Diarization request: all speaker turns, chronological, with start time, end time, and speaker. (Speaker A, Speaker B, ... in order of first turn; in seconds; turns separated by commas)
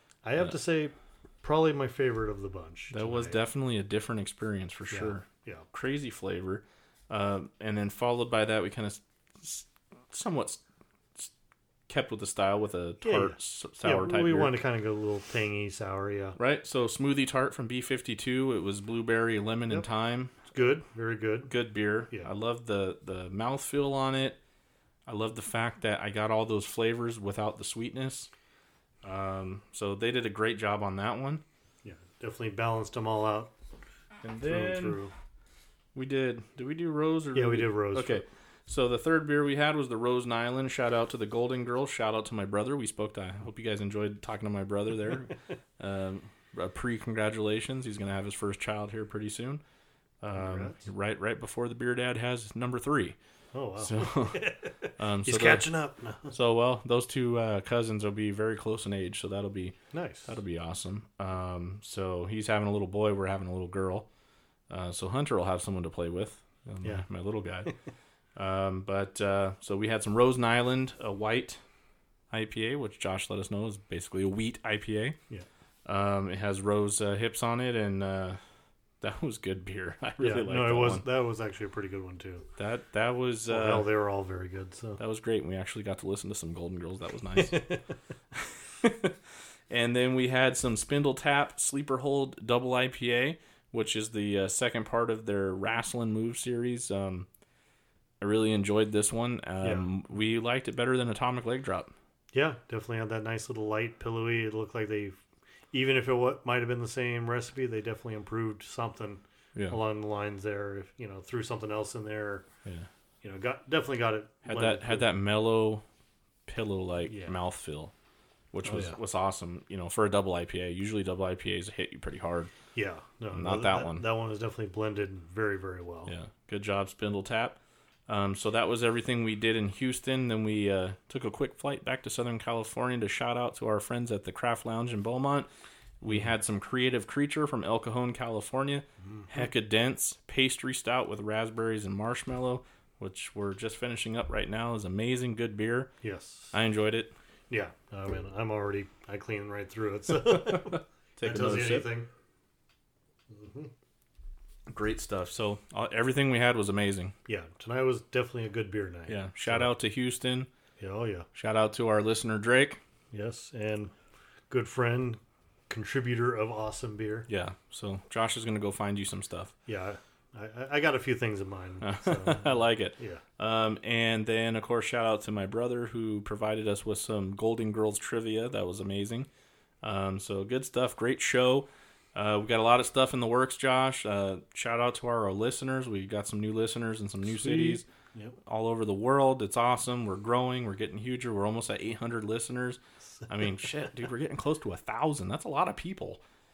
Speaker A: 0.2-3.4, Speaker B: 2.9-10.6, Speaker A: 4.9-5.7, Speaker B: 11.9-14.5, Speaker A: 13.0-16.4, Speaker B: 16.4-20.4, Speaker A: 19.7-22.3, Speaker B: 21.5-24.4, Speaker B: 25.1-28.3, Speaker B: 29.0-31.4, Speaker A: 31.8-33.5, Speaker B: 34.2-35.0, Speaker A: 34.4-35.1, Speaker B: 35.9-49.6, Speaker A: 37.3-38.2, Speaker B: 50.2-53.2, Speaker A: 50.3-50.8, Speaker A: 53.5-56.3, Speaker B: 53.8-55.7, Speaker B: 56.3-64.1, Speaker A: 59.9-60.4, Speaker B: 64.7-67.8, Speaker A: 66.8-67.1, Speaker B: 68.3-71.7, Speaker B: 72.3-75.2, Speaker B: 75.8-78.4, Speaker B: 79.0-81.0, Speaker A: 80.2-82.5, Speaker B: 82.6-83.9, Speaker A: 83.5-85.0, Speaker B: 85.0-87.6, Speaker A: 87.3-87.8, Speaker B: 88.4-89.1, Speaker B: 89.7-97.3, Speaker B: 98.2-101.9, Speaker A: 99.6-99.9, Speaker A: 102.3-112.5, Speaker A: 113.2-115.1, Speaker B: 114.4-115.8, Speaker B: 116.5-117.9, Speaker A: 117.0-117.4, Speaker B: 118.5-122.5, Speaker A: 118.6-119.0, Speaker A: 122.7-126.1, Speaker B: 123.3-124.0, Speaker B: 126.1-135.5, Speaker B: 136.0-145.9, Speaker A: 136.1-136.3, Speaker A: 139.0-139.3, Speaker A: 146.0-146.5, Speaker B: 146.5-147.1, Speaker A: 147.5-152.1, Speaker B: 150.5-151.9, Speaker A: 153.3-153.7, Speaker B: 154.7-157.1, Speaker A: 157.3-159.7, Speaker B: 159.1-160.5, Speaker A: 160.8-161.3, Speaker B: 161.3-162.8, Speaker A: 163.1-163.9, Speaker A: 164.5-167.3, Speaker B: 167.3-169.5, Speaker A: 169.7-173.2, Speaker B: 171.8-179.3, Speaker B: 179.8-187.9, Speaker A: 187.2-188.4, Speaker B: 188.4-196.2, Speaker A: 193.2-193.9